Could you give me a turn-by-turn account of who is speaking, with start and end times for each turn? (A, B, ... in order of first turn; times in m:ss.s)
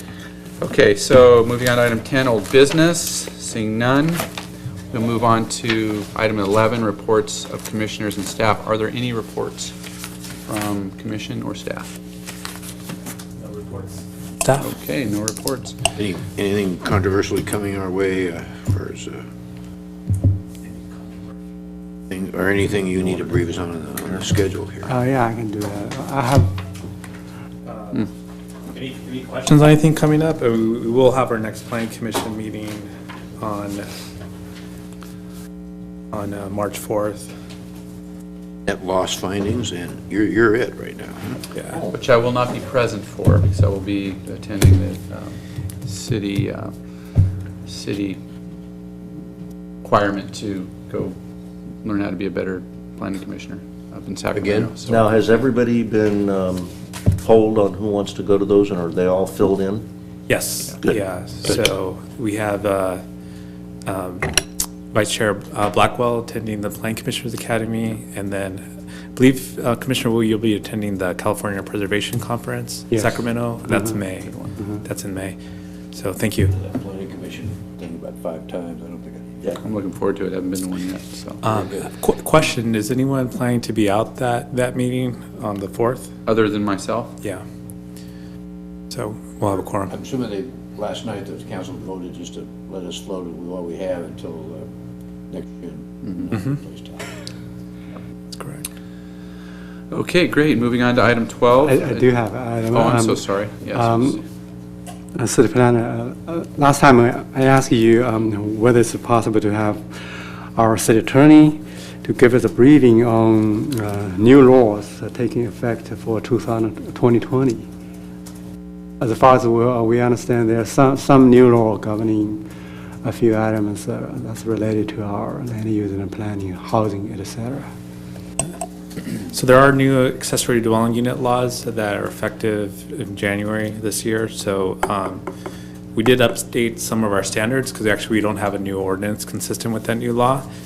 0:00.6-0:04.3 A
0:04.9-0:09.7 A
0:10.5-0:12.0 A
0:13.4-0:14.7 B
0:14.6-0:15.8 A
0:16.0-0:19.2 C
0:22.1-0:25.0 C
0:24.9-0:26.6 D
0:27.6-0:28.1 B
0:28.7-0:32.9 B
0:33.4-0:33.9 B
0:36.1-0:37.3 B
0:38.7-0:41.3 C
0:41.5-0:41.9 B
0:41.7-0:42.0 E
0:41.9-0:46.7 A
0:47.6-0:48.2 A
0:49.8-0:51.2 A
0:51.8-0:55.1 A
0:54.3-0:54.8 C
0:54.9-0:59.8 E
1:00.3-1:03.0 B
1:03.9-1:04.4 B
1:04.9-1:15.4 B
1:15.9-1:16.5 B
1:16.5-1:19.6 C
1:19.6-1:21.4 A
1:21.4-1:26.1 B
1:21.4-1:21.9 C
1:26.3-1:27.1 A
1:28.9-1:29.9 B
1:29.9-1:34.7 C
1:35.3-1:37.1 C
1:36.3-1:36.6 B
1:38.4-1:38.6 B
1:39.9-1:42.1 A
1:41.6-1:44.2 D
1:42.7-1:44.2 A
1:45.2-1:57.7 D
1:59.0-2:02.4 D
2:03.0-2:07.7 D
2:09.3-2:15.2 B
2:16.0-2:20.4 B